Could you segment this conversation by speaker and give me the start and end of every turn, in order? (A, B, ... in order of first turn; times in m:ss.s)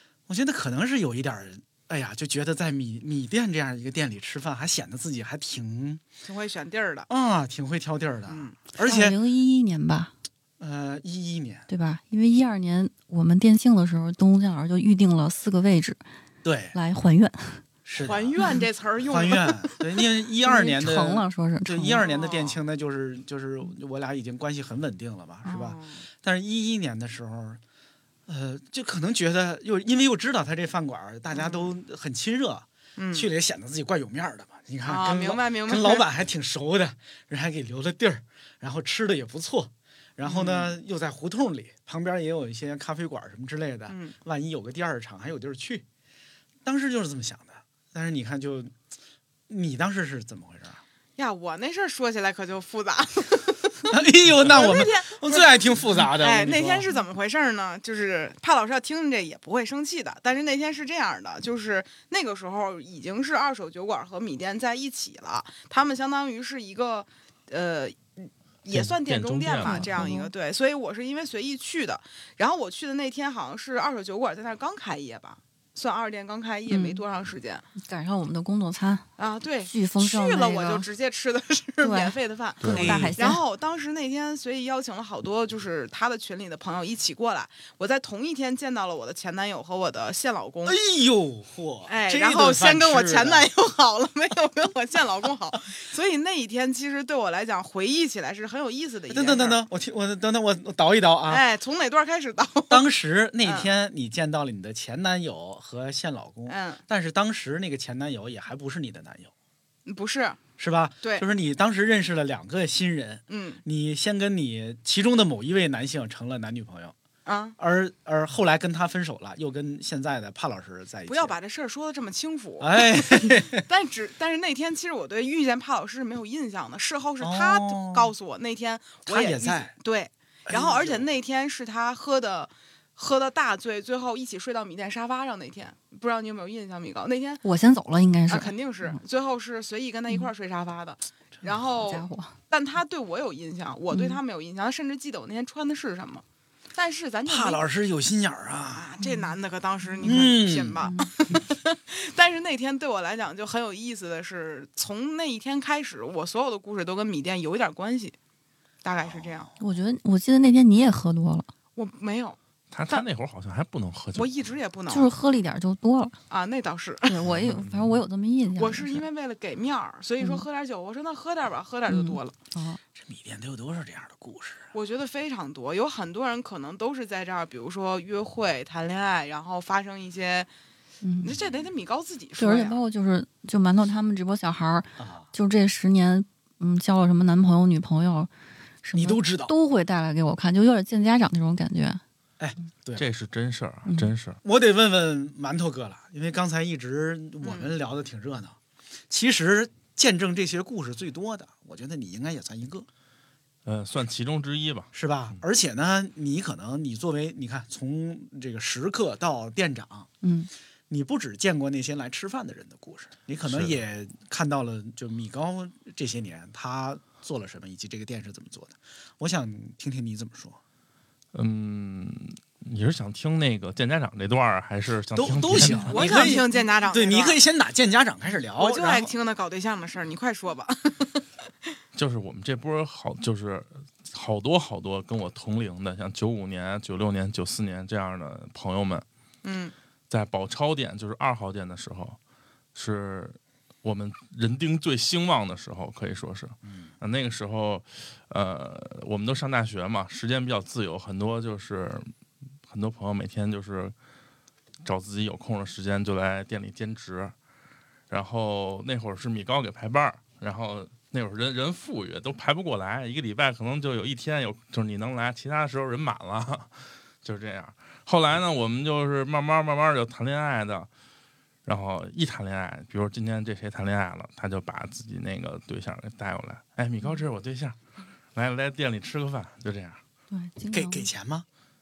0:00.3-0:06.0 A
0:06.2-0:07.1 B
0:07.1-0:09.2 A
0:08.3-0:08.6 B
0:08.8-0:10.1 C
0:10.6-0:11.7 A
0:11.7-0:16.0 C
0:16.4-0:16.8 A
0:16.7-0:17.6 C
0:17.8-0:18.5 A
0:18.0-0:19.8 B
0:19.1-0:27.6 A
0:20.4-0:22.0 C
0:21.9-0:22.6 B
0:25.4-0:26.0 B
0:28.3-0:45.8 A
0:31.3-0:31.7 B
0:33.0-0:33.3 B
0:34.8-0:36.0 B
0:40.2-0:40.7 B
0:43.9-0:44.2 B
0:46.6-0:48.8 A
0:49.5-0:50.8 A
0:51.2-1:17.7 B
0:53.9-0:56.9 A
1:08.7-1:09.9 D
1:09.6-1:10.3 C
1:16.7-1:17.0 C
1:17.8-1:19.0 C
1:19.2-1:30.8 B
1:19.6-1:20.8 C
1:21.8-1:23.4 C
1:22.6-1:23.1 D
1:22.7-1:23.2 A
1:30.6-1:33.5 A
1:31.9-1:39.6 B
1:39.1-1:41.4 A
1:41.3-1:42.8 B
1:42.7-1:49.3 A
1:43.4-1:43.7 B
1:46.5-1:46.8 B
1:49.8-1:50.4 B
1:50.6-1:56.9 A
1:53.3-1:53.6 B
1:57.2-1:57.6 B
1:57.6-2:01.4 A
2:01.1-2:17.4 B
2:02.6-2:03.6 A
2:07.2-2:08.1 A
2:09.1-2:09.7 A
2:10.4-2:11.1 A
2:17.4-2:19.0 C
2:18.3-2:27.6 B
2:21.8-2:22.4 C
2:23.9-2:24.2 C
2:27.2-2:28.9 A
2:28.7-2:38.2 B
2:29.0-2:29.3 C
2:29.9-2:30.3 C
2:30.0-2:30.8 A
2:30.8-2:31.1 C
2:38.8-2:39.5 B
2:39.0-2:39.6 A
2:39.6-2:41.5 C
2:41.8-2:43.1 B
2:42.7-2:44.5 D
2:44.1-2:45.1 B
2:44.9-2:46.2 C
2:46.3-2:47.2 B
2:47.0-2:49.1 C
2:47.3-2:47.8 A
2:47.3-2:47.6 D
2:48.6-2:52.3 B
2:50.2-2:50.4 C
2:51.9-2:52.8 C
2:52.9-2:54.7 A
2:54.7-3:00.5 B
3:01.0-3:01.3 C
3:01.2-3:02.8 B
3:01.3-3:01.7 A
3:02.4-3:08.3 C
3:05.0-3:05.3 A
3:08.8-3:12.0 C
3:08.9-3:09.5 A
3:12.4-3:13.0 A
3:13.0-3:14.4 D
3:13.8-3:14.1 C
3:14.4-3:18.6 A
3:17.4-3:17.7 B
3:19.1-3:22.9 A
3:23.6-3:24.9 D
3:24.9-3:30.1 A
3:30.2-3:30.5 C
3:30.9-3:40.6 A
3:33.4-3:33.8 D
3:41.3-3:46.4 D
3:45.1-3:49.1 A
3:45.9-3:47.4 B
3:48.6-3:51.2 B
3:51.9-3:59.0 D
3:59.4-3:59.7 B
4:00.1-4:02.2 D
4:02.7-4:12.1 D
4:06.6-4:06.9 A
4:12.6-4:13.9 D
4:14.8-4:17.3 D
4:18.1-4:30.9 D
4:31.6-4:37.8 D
4:38.3-4:40.0 D
4:40.3-4:41.1 C
4:40.7-4:41.4 A